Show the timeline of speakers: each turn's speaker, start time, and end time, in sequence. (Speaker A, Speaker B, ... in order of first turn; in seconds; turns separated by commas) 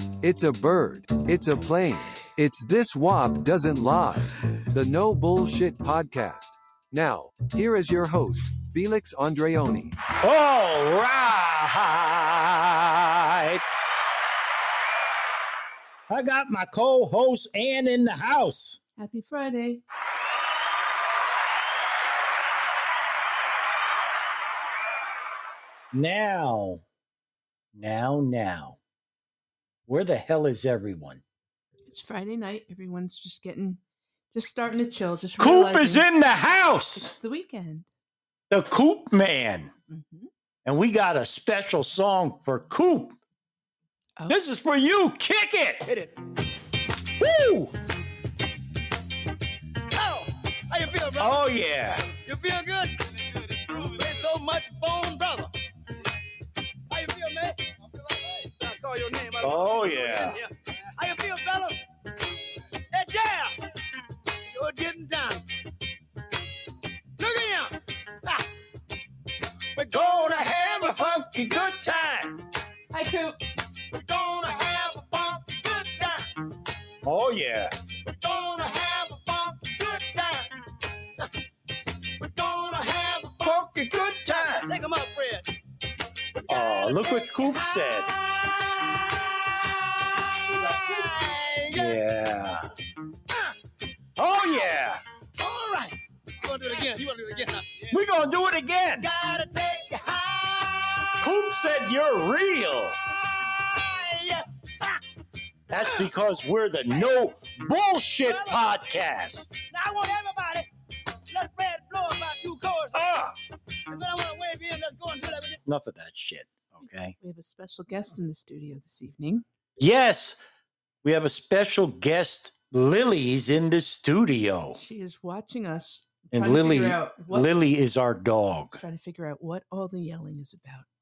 Speaker A: 0.2-10.0, Speaker B: 10.2-13.6, Speaker B: 16.1-18.8, Speaker C: 19.0-19.8, Speaker B: 25.9-26.8, Speaker B: 27.8-28.8, Speaker B: 29.9-31.2, Speaker C: 31.9-33.8, Speaker C: 34.3-36.1, Speaker B: 35.4-37.1, Speaker C: 36.9-37.9, Speaker B: 38.5-39.7, Speaker C: 39.9-40.3, Speaker B: 40.6-43.2, Speaker B: 44.3-45.9, Speaker D: 45.9-46.1, Speaker B: 47.1-47.7, Speaker D: 49.9-51.4, Speaker B: 51.2-52.1, Speaker D: 52.0-55.5, Speaker D: 56.9-61.8, Speaker B: 59.4-60.4, Speaker D: 62.9-63.5, Speaker D: 64.5-65.4, Speaker D: 67.2-68.5, Speaker D: 69.8-71.7, Speaker B: 69.9-72.4, Speaker C: 72.9-73.4, Speaker D: 73.8-76.5, Speaker B: 77.0-77.7, Speaker D: 78.0-80.6, Speaker D: 82.2-85.5, Speaker B: 83.4-84.7, Speaker D: 86.3-92.0, Speaker B: 86.5-88.1, Speaker B: 91.7-92.7, Speaker D: 93.3-93.5, Speaker B: 94.2-95.0, Speaker D: 95.4-98.0, Speaker B: 97.9-99.1, Speaker D: 99.0-101.7, Speaker B: 101.2-103.0, Speaker D: 103.1-105.0, Speaker D: 105.7-106.1, Speaker B: 105.7-109.6, Speaker D: 106.9-107.3, Speaker D: 108.2-109.0, Speaker D: 109.7-110.7, Speaker D: 111.3-113.0, Speaker B: 112.9-113.4, Speaker D: 113.8-115.6, Speaker B: 115.7-117.2, Speaker C: 117.2-119.4, Speaker B: 119.8-120.4, Speaker B: 121.0-124.8, Speaker C: 124.7-127.5, Speaker B: 126.3-128.8, Speaker C: 128.8-130.9